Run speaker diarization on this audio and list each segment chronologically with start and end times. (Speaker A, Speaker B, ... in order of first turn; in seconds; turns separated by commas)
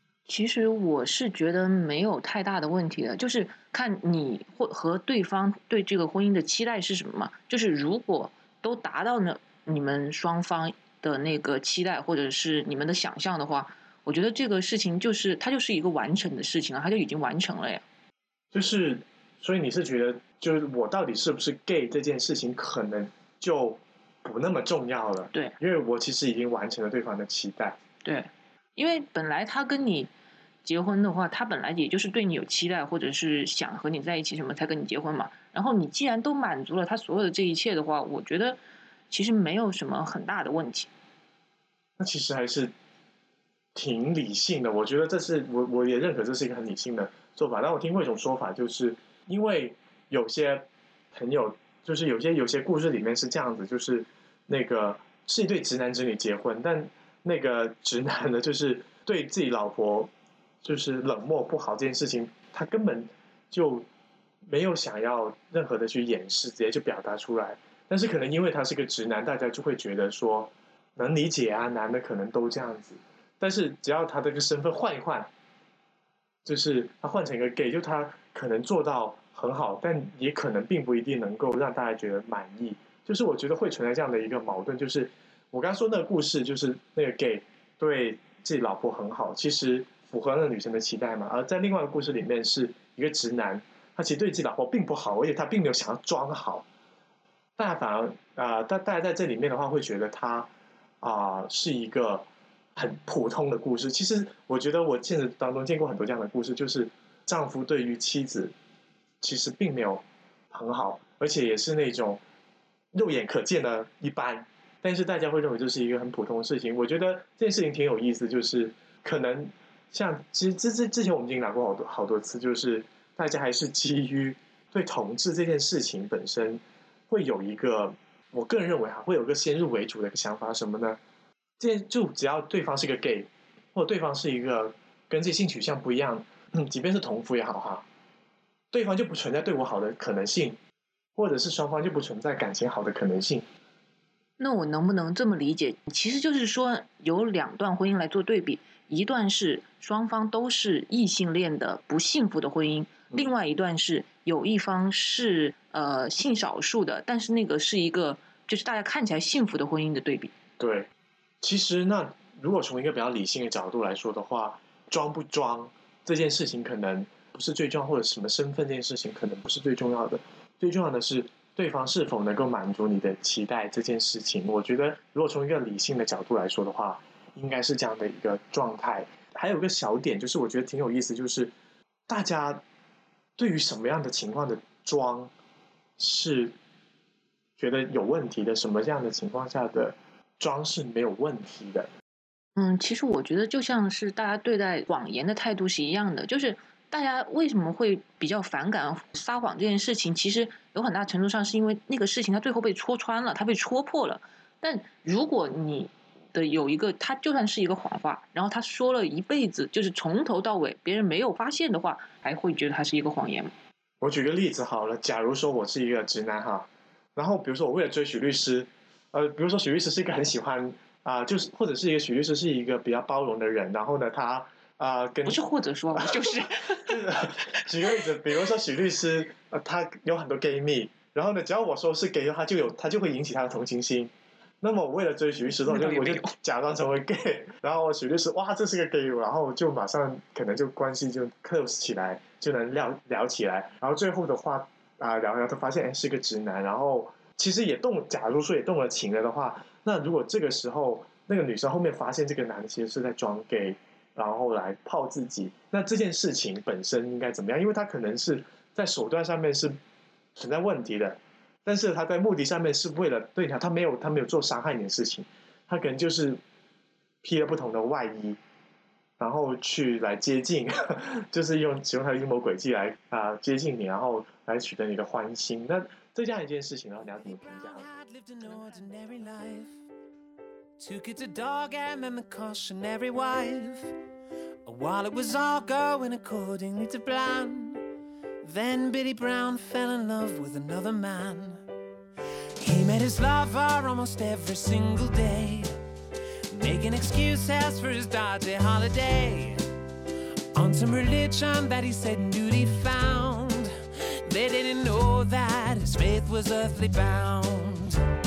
Speaker A: 0.3-17.8, Speaker B: 18.5-27.8, Speaker A: 28.0-30.1, Speaker A: 30.6-38.6, Speaker A: 39.1-40.9, Speaker B: 42.0-42.7, Speaker B: 43.7-60.1, Speaker B: 60.6-63.9, Speaker B: 64.5-75.3, Speaker B: 76.4-96.6, Speaker B: 97.6-100.5, Speaker B: 101.0-108.5, Speaker B: 109.2-112.2, Speaker B: 112.9-131.0, Speaker B: 131.6-137.8, Speaker B: 138.7-140.6, Speaker B: 141.2-143.4, Speaker A: 144.4-160.3, Speaker B: 160.6-160.9, Speaker B: 161.4-181.5, Speaker B: 182.1-182.6, Speaker B: 183.4-185.3, Speaker B: 186.0-186.6, Speaker B: 187.6-191.9, Speaker A: 192.6-213.5, Speaker B: 214.0-225.4, Speaker A: 225.2-228.3, Speaker B: 225.9-234.1, Speaker B: 234.6-259.8, Speaker A: 235.7-236.3, Speaker B: 260.4-266.4, Speaker B: 267.2-268.4, Speaker B: 269.2-277.9, Speaker C: 277.1-279.8, Speaker C: 280.8-283.9, Speaker C: 284.6-287.9, Speaker C: 288.4-291.6, Speaker C: 292.6-295.8, Speaker C: 296.5-299.6, Speaker C: 300.6-308.0